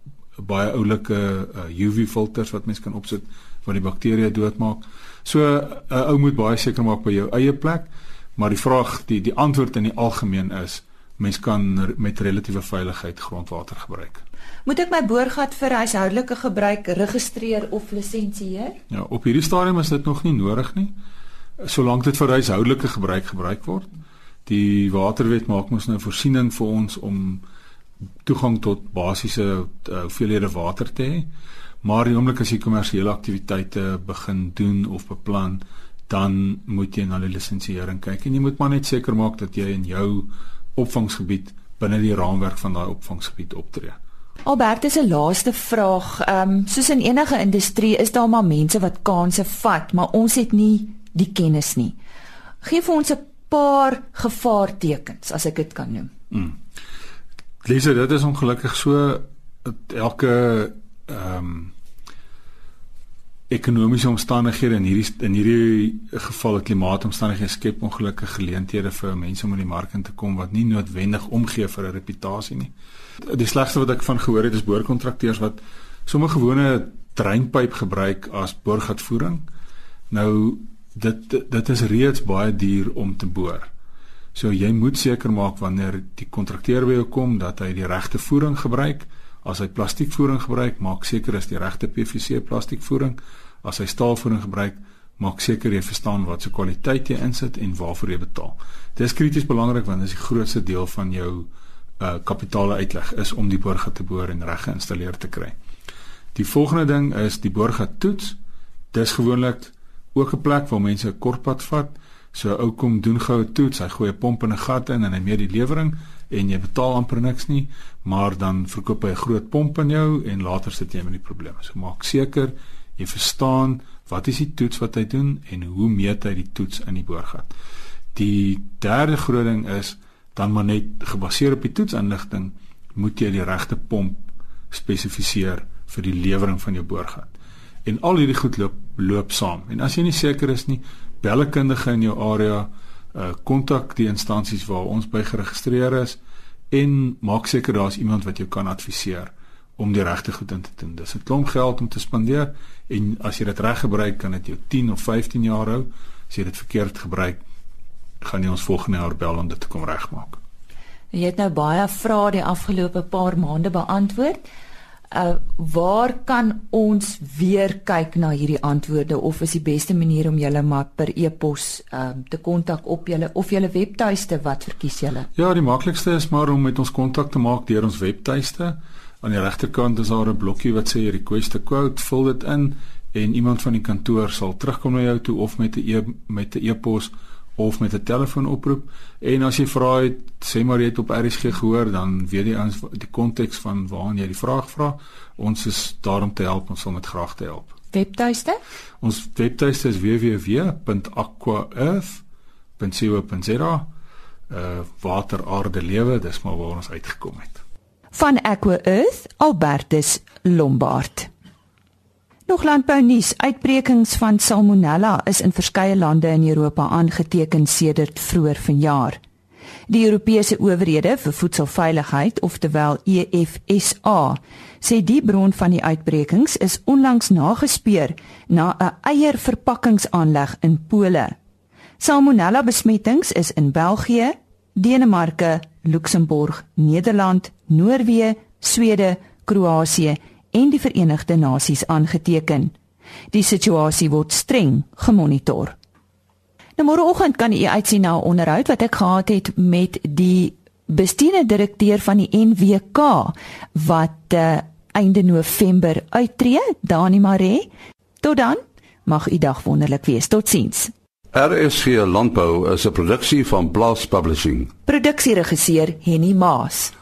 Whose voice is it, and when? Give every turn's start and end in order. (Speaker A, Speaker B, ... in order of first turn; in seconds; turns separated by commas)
Speaker A: 0.4-14.2, Speaker B: 14.7-18.8, Speaker A: 18.9-20.9, Speaker A: 21.6-27.4, Speaker A: 28.2-31.3, Speaker A: 31.8-44.0, Speaker B: 44.5-52.0, Speaker B: 52.6-56.1, Speaker A: 56.3-56.6, Speaker A: 57.6-61.7, Speaker A: 63.5-72.7, Speaker A: 73.3-79.5, Speaker A: 80.1-83.7, Speaker A: 84.3-101.5, Speaker A: 102.0-105.5, Speaker A: 106.3-108.4, Speaker A: 108.9-127.5, Speaker A: 128.1-146.2, Speaker A: 146.7-157.4, Speaker A: 158.2-160.4, Speaker B: 161.1-164.4, Speaker B: 165.1-175.3, Speaker A: 175.3-197.8, Speaker B: 197.9-198.6, Speaker A: 199.0-202.2, Speaker A: 202.8-203.9, Speaker A: 204.5-207.6, Speaker B: 208.1-211.3, Speaker B: 212.5-219.2, Speaker B: 219.9-231.3, Speaker B: 232.0-242.7, Speaker B: 243.3-245.8, Speaker B: 246.8-257.7, Speaker B: 258.2-260.9, Speaker C: 261.3-264.7, Speaker B: 264.9-266.9